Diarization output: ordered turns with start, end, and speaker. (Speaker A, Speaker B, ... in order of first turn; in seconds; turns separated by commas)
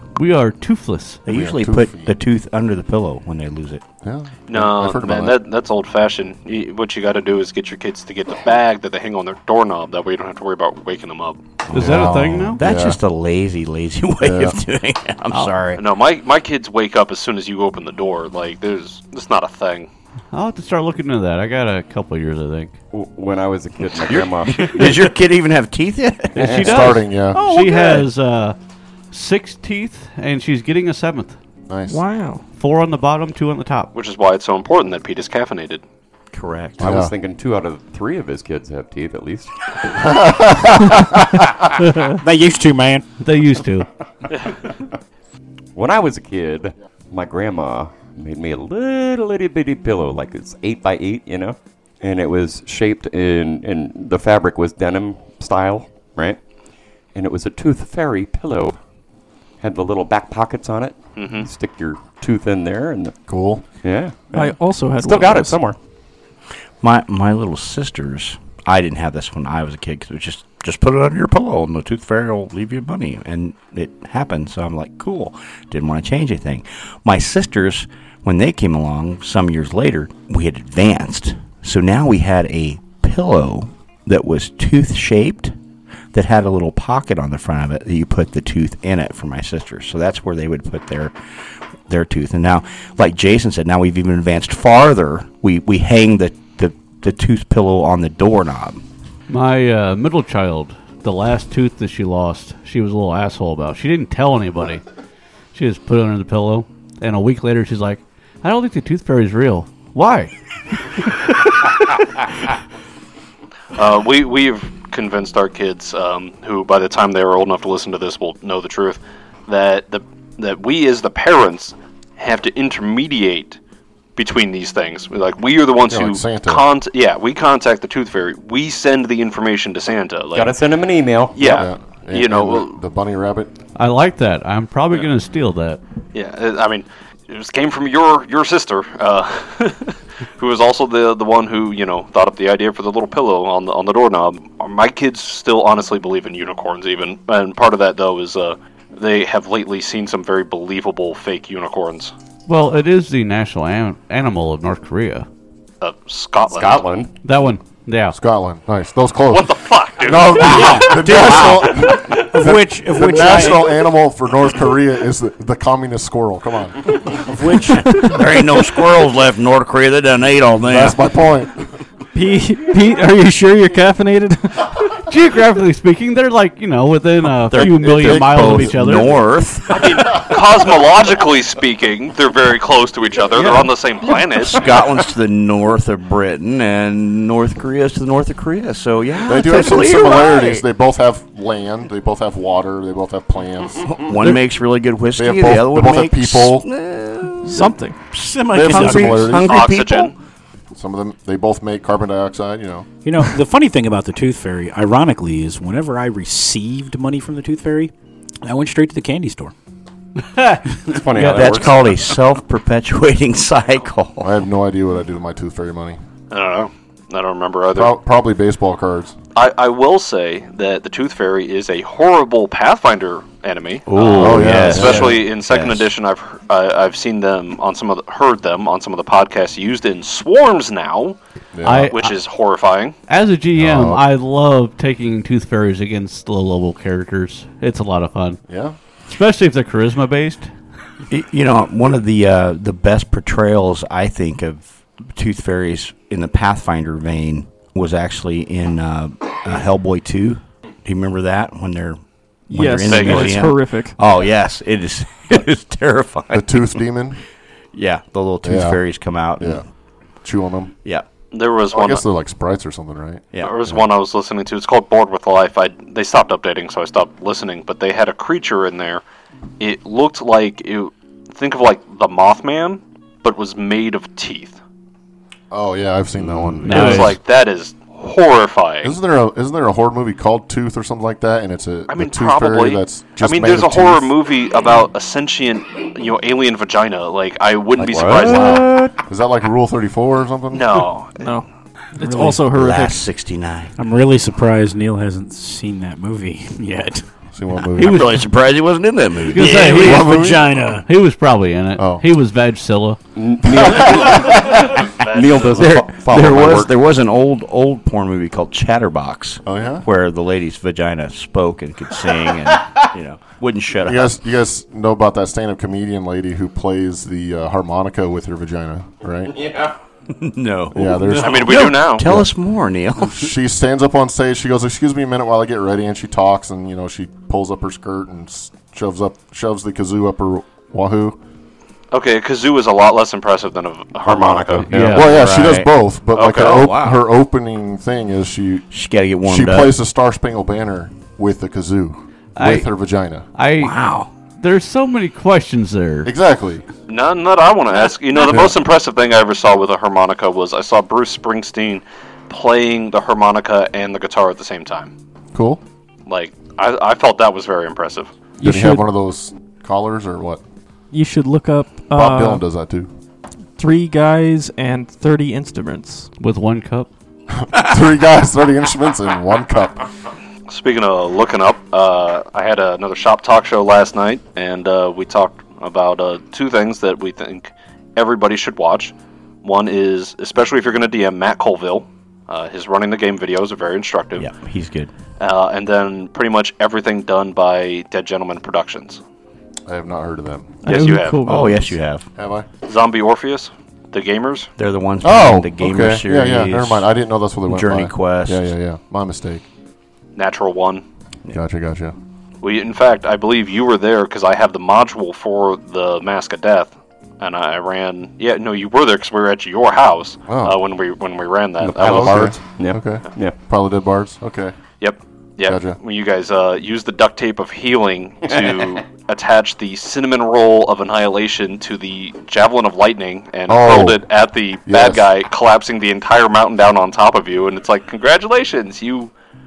Speaker A: 0.1-1.2, Speaker B: 1.2-3.8, Speaker C: 1.3-2.1, Speaker C: 4.0-5.4, Speaker D: 4.5-11.4, Speaker B: 11.7-15.8, Speaker A: 11.7-12.6, Speaker C: 11.7-13.0, Speaker C: 14.2-14.6, Speaker D: 15.8-19.9, Speaker A: 20.3-22.7, Speaker E: 22.9-25.0, Speaker B: 23.9-28.0, Speaker E: 26.4-26.6, Speaker A: 26.4-28.6, Speaker C: 26.6-27.4, Speaker A: 29.1-31.3, Speaker C: 31.7-32.0, Speaker F: 31.9-32.4, Speaker A: 32.5-33.9, Speaker D: 33.9-35.8, Speaker B: 36.3-36.8, Speaker E: 36.8-39.5, Speaker C: 36.8-37.1, Speaker C: 40.0-41.4, Speaker G: 42.2-43.0, Speaker A: 43.2-43.9, Speaker E: 45.8-56.4, Speaker E: 57.1-58.8, Speaker E: 59.6-63.1, Speaker D: 61.1-61.5, Speaker C: 63.3-63.6, Speaker E: 63.8-65.8, Speaker F: 64.3-65.7, Speaker B: 66.8-85.5, Speaker B: 86.1-91.1, Speaker B: 91.9-98.8, Speaker A: 99.3-104.8, Speaker A: 105.5-110.3, Speaker A: 111.0-111.5, Speaker D: 113.7-123.6, Speaker D: 124.2-130.6, Speaker C: 125.9-126.6, Speaker E: 130.3-131.4, Speaker D: 131.3-132.8, Speaker C: 131.4-133.5, Speaker A: 133.7-135.8, Speaker D: 136.1-152.1, Speaker A: 152.5-155.3, Speaker D: 155.8-156.9, Speaker E: 156.5-157.1, Speaker A: 157.2-158.2, Speaker C: 158.1-168.1, Speaker D: 159.3-160.9, Speaker G: 160.4-163.9, Speaker B: 160.4-161.7, Speaker G: 167.4-167.8, Speaker F: 167.8-168.1, Speaker B: 168.0-171.1, Speaker C: 170.7-171.6, Speaker F: 172.1-174.7, Speaker A: 175.1-179.2, Speaker B: 177.5-180.2, Speaker C: 178.0-178.6, Speaker D: 179.7-184.6, Speaker F: 183.3-183.7, Speaker B: 184.3-190.6, Speaker C: 189.2-194.1, Speaker B: 193.8-200.1, Speaker C: 195.2-196.7, Speaker F: 197.4-198.0, Speaker C: 198.5-199.6, Speaker D: 199.3-200.1, Speaker C: 200.7-202.9, Speaker G: 203.0-207.9, Speaker G: 208.4-209.5, Speaker A: 210.3-211.4, Speaker E: 210.8-212.0, Speaker B: 211.3-214.3, Speaker C: 214.2-216.0, Speaker D: 216.3-217.9, Speaker C: 217.7-219.1, Speaker D: 219.3-231.2, Speaker B: 223.9-225.9, Speaker C: 224.2-225.2, Speaker C: 231.5-231.9, Speaker A: 231.6-232.1, Speaker D: 231.9-232.9, Speaker A: 233.1-238.4, Speaker C: 233.6-234.0, Speaker C: 238.5-238.8, Speaker A: 239.0-240.5, Speaker B: 241.1-252.0, Speaker F: 252.5-254.0, Speaker B: 252.5-256.8, Speaker D: 252.8-253.4, Speaker C: 256.3-257.2, Speaker B: 257.7-259.6, Speaker C: 258.4-258.8, Speaker C: 259.4-259.6, Speaker C: 260.2-260.7, Speaker D: 261.3-262.0, Speaker C: 261.7-263.8, Speaker D: 263.4-269.0, Speaker D: 269.6-274.6, Speaker C: 275.5-277.1, Speaker A: 276.6-277.1, Speaker D: 276.7-279.0, Speaker C: 278.8-284.1, Speaker D: 281.9-288.6, Speaker E: 287.8-289.0, Speaker C: 288.2-290.8, Speaker D: 290.5-291.4, Speaker F: 291.2-291.4, Speaker F: 292.0-293.0, Speaker G: 292.0-292.4, Speaker B: 292.2-293.7, Speaker G: 293.8-297.0, Speaker C: 297.3-298.1, Speaker B: 297.7-299.6, Speaker A: 299.3-300.3, Speaker G: 299.3-300.9, Speaker C: 299.6-300.7, Speaker A: 300.9-303.0, Speaker C: 301.8-302.1, Speaker E: 303.1-306.7, Speaker D: 304.0-305.8, Speaker B: 305.4-314.2, Speaker C: 309.4-309.9, Speaker C: 313.9-319.6, Speaker B: 320.1-323.3, Speaker C: 320.7-322.3, Speaker D: 321.1-322.1, Speaker C: 323.0-331.2, Speaker D: 331.9-334.7, Speaker B: 334.6-337.0, Speaker A: 334.6-335.2, Speaker C: 334.7-338.7, Speaker D: 336.1-336.6, Speaker B: 338.7-339.8, Speaker C: 339.2-343.3, Speaker A: 342.4-342.7, Speaker A: 343.3-343.8, Speaker B: 343.6-344.1, Speaker A: 344.4-346.1, Speaker C: 346.0-346.6, Speaker D: 346.9-354.9, Speaker C: 355.3-355.6, Speaker D: 356.1-358.1, Speaker F: 358.4-358.9, Speaker C: 358.4-360.4, Speaker F: 360.9-362.4, Speaker C: 361.9-362.9, Speaker F: 363.6-366.1, Speaker A: 366.2-366.9, Speaker C: 367.4-369.8, Speaker D: 370.5-384.3, Speaker B: 384.1-384.9, Speaker D: 385.2-389.0, Speaker C: 389.7-390.6, Speaker F: 390.6-391.6, Speaker D: 390.6-391.3, Speaker B: 391.2-392.1, Speaker C: 392.2-392.5, Speaker D: 392.6-394.5, Speaker B: 394.6-396.9, Speaker C: 395.0-399.4, Speaker B: 397.4-398.5, Speaker D: 400.1-400.8, Speaker C: 401.3-401.9, Speaker D: 402.4-412.3, Speaker C: 410.3-410.6, Speaker E: 411.6-413.4, Speaker C: 411.8-414.5, Speaker D: 414.8-429.1, Speaker C: 415.4-415.8, Speaker C: 423.5-424.0, Speaker C: 424.7-425.1